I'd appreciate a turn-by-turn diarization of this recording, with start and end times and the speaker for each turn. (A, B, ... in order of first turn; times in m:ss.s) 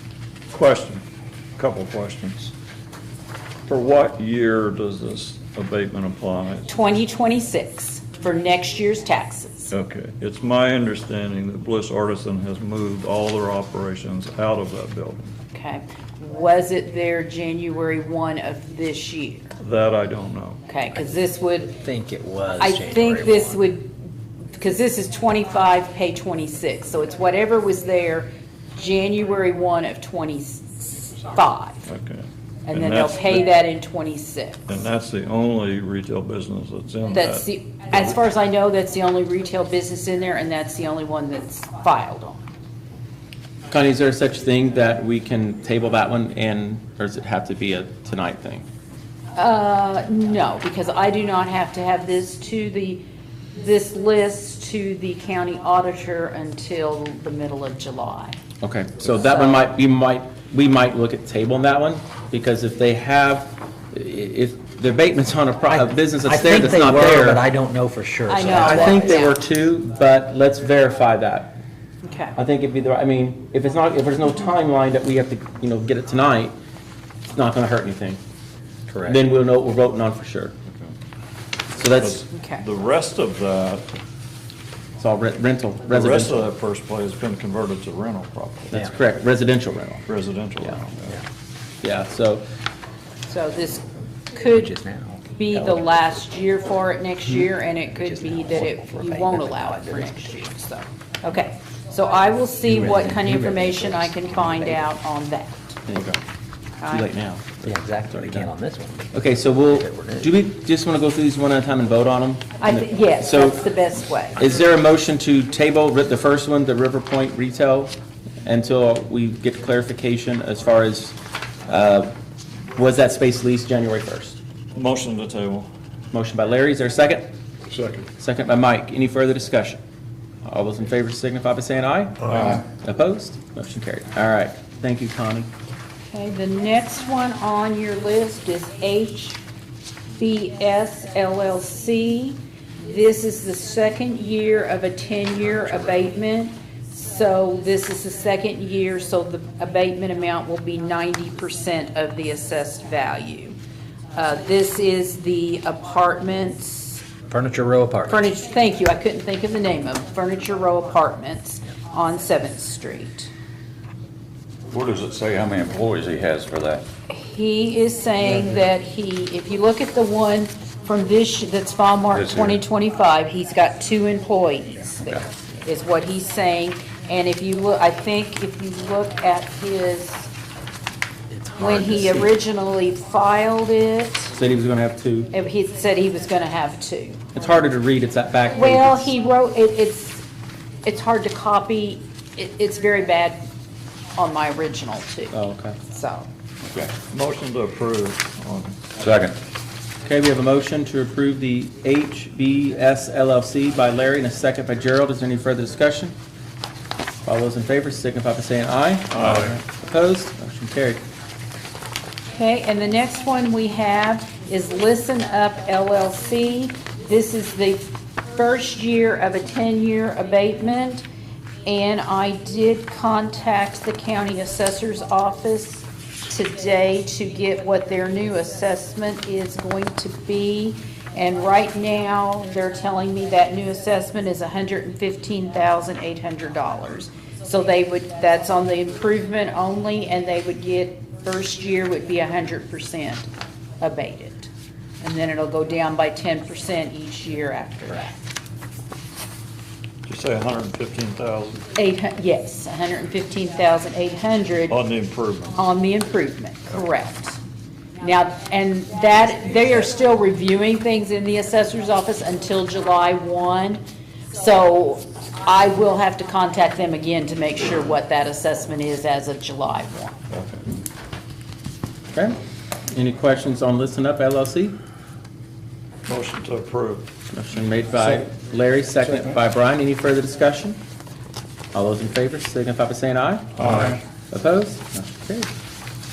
0:00.5-0:01.0 A
0:01.6-0:02.5 A
0:03.7-0:06.7 A
0:06.7-0:09.7 B
0:09.7-0:15.3 A
0:15.5-0:19.5 B
0:19.6-0:20.6 A
0:20.7-0:21.8 B
0:21.8-0:23.6 C
0:22.6-0:24.0 B
0:24.6-0:31.9 B
0:31.9-0:33.5 A
0:32.6-0:34.7 B
0:34.7-0:38.2 A
0:37.1-0:42.4 B
0:43.7-0:48.6 D
0:49.3-0:53.0 B
0:53.5-0:58.4 B
0:58.6-1:07.4 D
0:59.1-0:59.7 B
1:06.2-1:09.2 C
1:08.3-1:09.4 B
1:08.4-1:11.6 D
1:12.0-1:12.4 B
1:12.4-1:16.5 D
1:17.3-1:18.2 D
1:18.9-1:19.2 C
1:19.0-1:20.5 D
1:21.7-1:22.3 D
1:21.9-1:23.9 A
1:22.3-1:22.6 B
1:25.0-1:26.4 D
1:25.9-1:28.7 A
1:28.7-1:30.0 D
1:30.1-1:31.2 A
1:31.8-1:32.4 D
1:33.3-1:34.8 B
1:34.5-1:35.8 C
1:35.3-1:45.8 B
1:38.0-1:40.3 C
1:42.7-1:44.8 C
1:45.9-1:46.2 D
1:46.8-1:47.0 B
1:46.9-1:48.4 D
1:47.6-1:50.3 C
1:49.1-1:53.6 D
1:52.6-1:54.5 B
1:54.4-2:02.1 D
2:02.7-2:04.4 D
2:04.7-2:05.7 A
2:06.1-2:07.3 D
2:08.2-2:09.8 D
2:10.4-2:15.5 D
2:12.4-2:12.6 E
2:16.1-2:19.4 B
2:20.2-2:33.6 B
2:34.1-2:37.0 B
2:37.3-2:38.3 C
2:38.1-2:43.3 B
2:44.7-2:46.8 E
2:47.1-3:00.3 B
2:52.1-2:52.6 E
3:01.4-3:02.2 C
3:01.6-3:04.4 B
3:04.3-3:05.3 D
3:05.3-3:07.3 B
3:07.3-3:09.1 D
3:08.5-3:10.2 B
3:10.8-3:13.4 B
3:14.1-3:16.3 B
3:15.3-3:15.8 D
3:16.6-3:16.9 E
3:17.1-3:18.9 A
3:19.0-3:19.4 E
3:20.0-3:26.1 D
3:27.2-3:31.0 D
3:29.2-3:29.5 E
3:32.3-3:41.0 B
3:41.6-4:03.3 B
4:03.8-4:04.5 B
4:05.0-4:08.1 B
4:10.0-4:11.6 A
4:11.7-4:14.8 B
4:14.7-4:15.6 A
4:15.6-4:17.4 B
4:18.0-4:23.8 B
4:24.3-4:30.2 B
4:30.3-4:30.6 A
4:32.9-4:34.8 D
4:36.1-4:37.1 A
4:37.3-4:40.8 D
4:41.7-4:45.5 D
4:43.6-4:43.9 A